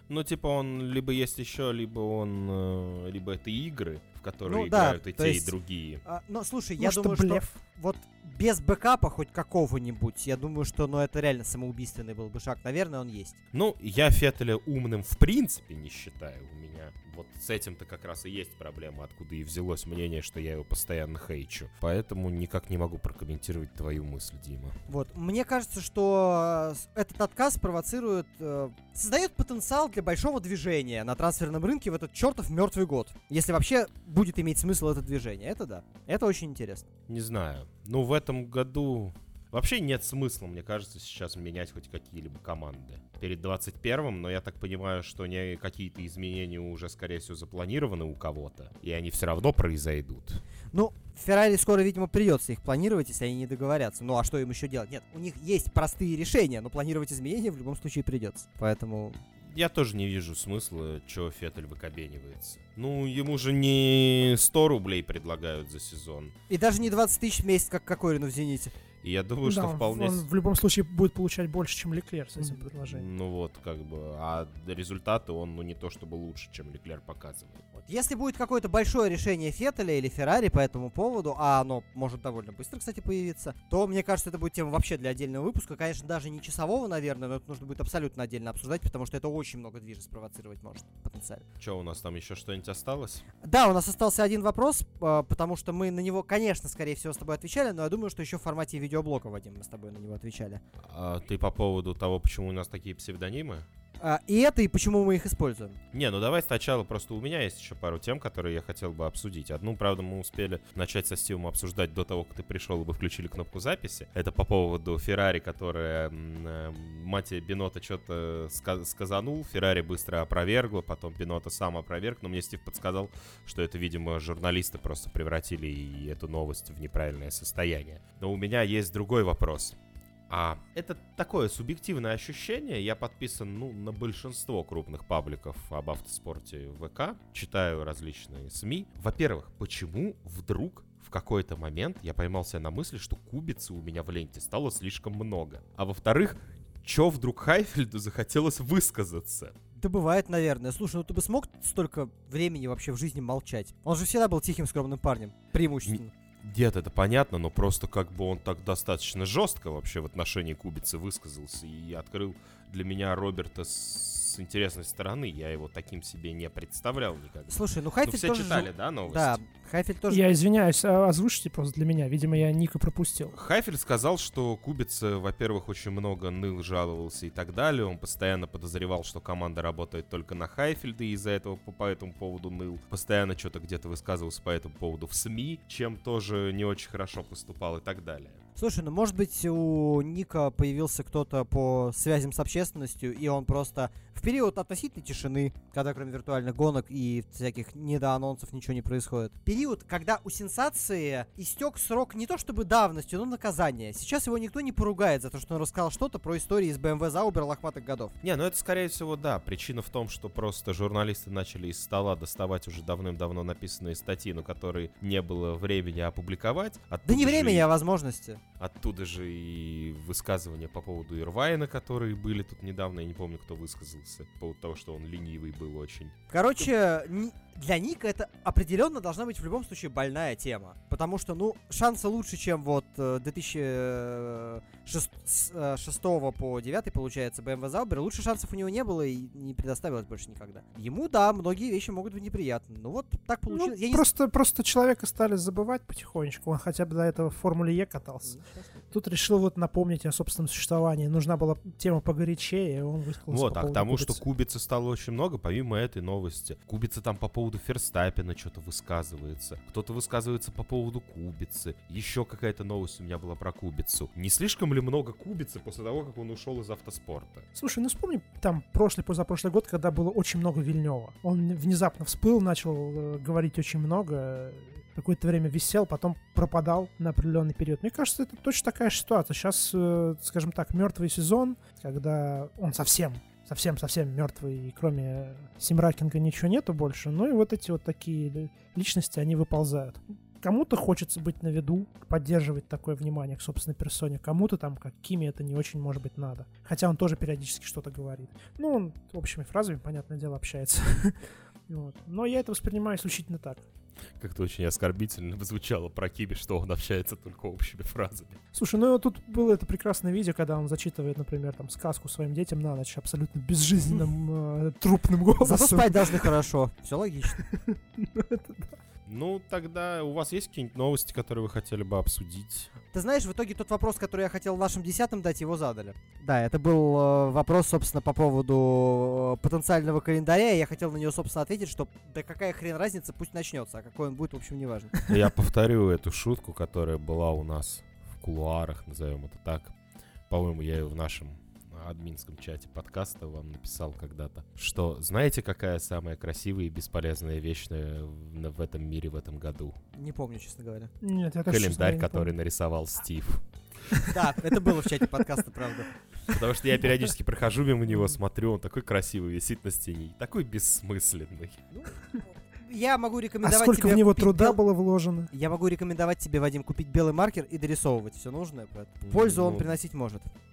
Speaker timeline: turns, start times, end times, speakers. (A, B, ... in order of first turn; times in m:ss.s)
0:00.1-0:06.0 A
0:04.4-0:13.4 B
0:06.8-0:07.5 C
0:13.5-0:24.8 A
0:24.9-0:36.9 B
0:37.1-0:50.4 A
0:50.7-0:59.2 B
0:59.5-1:06.3 A
1:06.5-1:08.7 B
1:09.0-1:10.3 A
1:09.4-1:13.1 C
1:12.7-1:17.6 A
1:17.8-1:31.4 B
1:31.6-1:33.2 A
1:33.4-1:40.6 B
1:40.8-1:43.6 A
1:44.0-1:45.8 B
1:45.9-2:09.8 A
2:10.3-2:29.6 A
2:29.8-2:36.1 B
2:35.9-2:49.4 A
2:47.5-2:50.3 B
2:50.1-2:53.4 C
2:53.3-3:08.4 A
3:08.6-3:28.1 B
3:28.2-3:37.7 A
3:37.1-3:38.4 B
3:38.6-3:46.1 A
3:46.3-4:04.1 B
4:03.5-4:08.4 C
4:08.3-4:08.8 B
4:08.9-4:14.2 C
4:13.3-4:27.5 A
4:27.6-5:03.6 C
5:04.2-5:08.4 A
5:08.5-5:16.3 C
5:15.4-5:17.4 B
5:17.4-5:18.8 C
5:19.1-5:22.7 A
5:22.9-5:34.9 B
5:35.1-5:39.7 A
5:40.3-5:49.8 A
5:50.0-5:50.9 B
5:51.0-5:52.3 C
5:51.5-5:53.4 A
5:54.1-5:55.9 B
5:56.3-6:01.7 A
6:01.8-6:04.6 B
6:03.4-6:05.3 C
6:05.3-6:10.3 B
6:09.0-6:09.8 A